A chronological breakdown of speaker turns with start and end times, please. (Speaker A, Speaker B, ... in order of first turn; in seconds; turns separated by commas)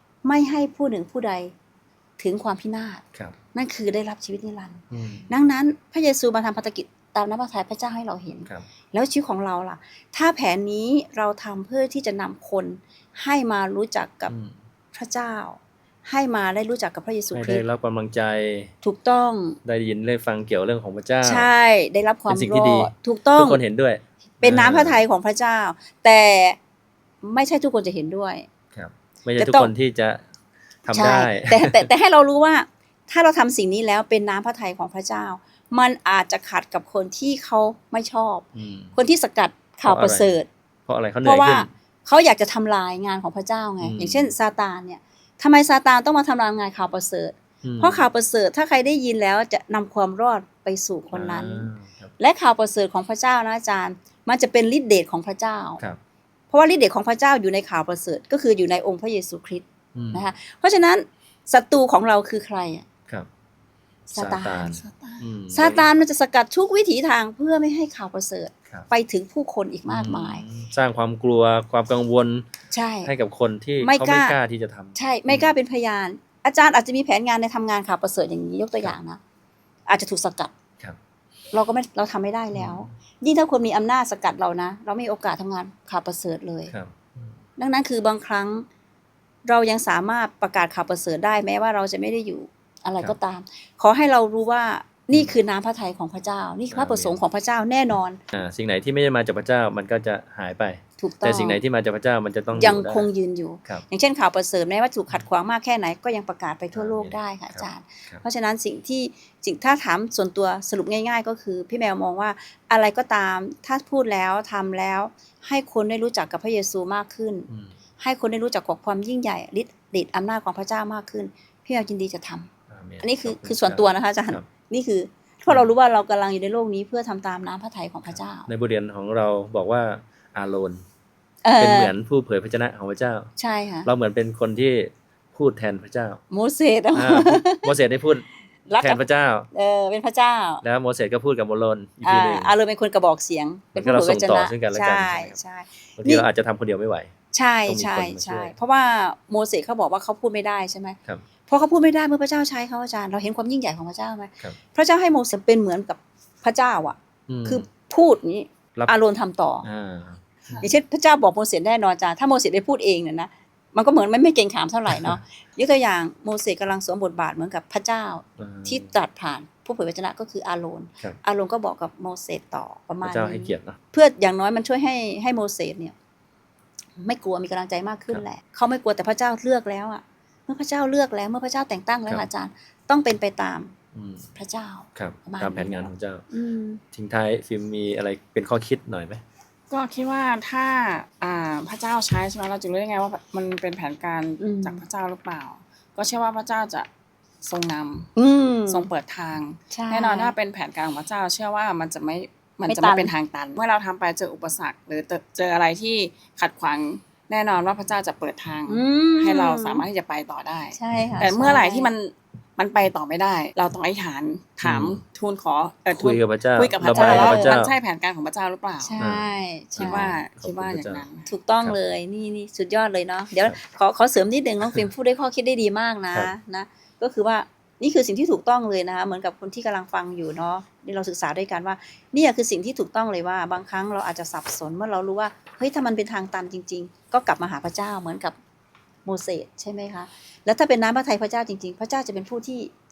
Speaker A: 0.2-1.5, Speaker A: 2.2-14.3, Speaker B: 4.9-5.3, Speaker B: 14.3-14.6, Speaker A: 14.9-17.6, Speaker B: 17.3-18.7, Speaker A: 18.8-19.6, Speaker B: 19.6-21.5, Speaker A: 21.2-23.6, Speaker B: 22.3-25.0, Speaker A: 24.4-26.6, Speaker A: 27.2-28.5, Speaker B: 28.8-30.2, Speaker A: 29.4-29.7, Speaker B: 30.9-31.9, Speaker A: 30.9-40.5, Speaker B: 38.5-38.9, Speaker B: 39.9-40.3, Speaker B: 40.9-41.7, Speaker A: 41.2-55.8, Speaker B: 43.8-44.3, Speaker B: 47.6-48.1, Speaker B: 51.1-52.1, Speaker A: 56.5-62.9, Speaker B: 60.0-60.3, Speaker A: 64.1-64.8, Speaker B: 64.1-65.9, Speaker C: 64.8-65.2, Speaker A: 65.5-70.4, Speaker B: 69.9-72.5, Speaker A: 72.7-73.1, Speaker B: 73.0-75.5, Speaker A: 73.8-74.4, Speaker A: 75.0-79.2, Speaker A: 79.9-80.5, Speaker A: 81.5-86.7, Speaker B: 82.5-82.9, Speaker B: 86.7-87.3, Speaker A: 87.6-88.7, Speaker A: 89.5-98.2, Speaker B: 96.7-97.2, Speaker B: 98.3-103.1, Speaker A: 101.0-101.6, Speaker A: 102.5-122.5, Speaker B: 106.7-108.2, Speaker B: 117.5-117.8, Speaker B: 122.7-124.5, Speaker A: 123.0-128.5, Speaker B: 128.1-130.8, Speaker A: 131.4-131.9, Speaker B: 131.6-133.3, Speaker A: 133.4-133.9, Speaker B: 133.8-136.2, Speaker A: 136.3-137.7, Speaker B: 136.9-138.3, Speaker A: 138.7-140.6, Speaker B: 138.8-139.5, Speaker B: 140.6-142.5, Speaker A: 142.0-146.3, Speaker B: 143.8-145.4, Speaker B: 146.0-147.1, Speaker A: 147.3-159.7, Speaker B: 147.7-148.5, Speaker B: 157.3-157.7, Speaker B: 159.6-160.7, Speaker A: 160.6-175.9, Speaker B: 164.9-165.2, Speaker B: 168.4-168.9, Speaker B: 173.0-173.8, Speaker A: 177.0-183.7, Speaker B: 183.9-184.3, Speaker A: 184.3-186.8, Speaker B: 184.9-186.2, Speaker B: 186.9-189.2, Speaker C: 189.7-196.9, Speaker A: 194.4-194.8, Speaker C: 197.4-198.1, Speaker A: 198.2-198.9, Speaker C: 198.7-219.0, Speaker A: 199.7-200.3, Speaker A: 202.7-203.1, Speaker A: 208.7-209.8, Speaker A: 210.7-211.9, Speaker B: 214.6-215.0, Speaker B: 215.9-217.7, Speaker A: 216.9-217.6, Speaker A: 218.8-220.2, Speaker B: 219.0-221.0, Speaker C: 219.8-221.3, Speaker A: 221.3-238.4, Speaker A: 239.1-242.7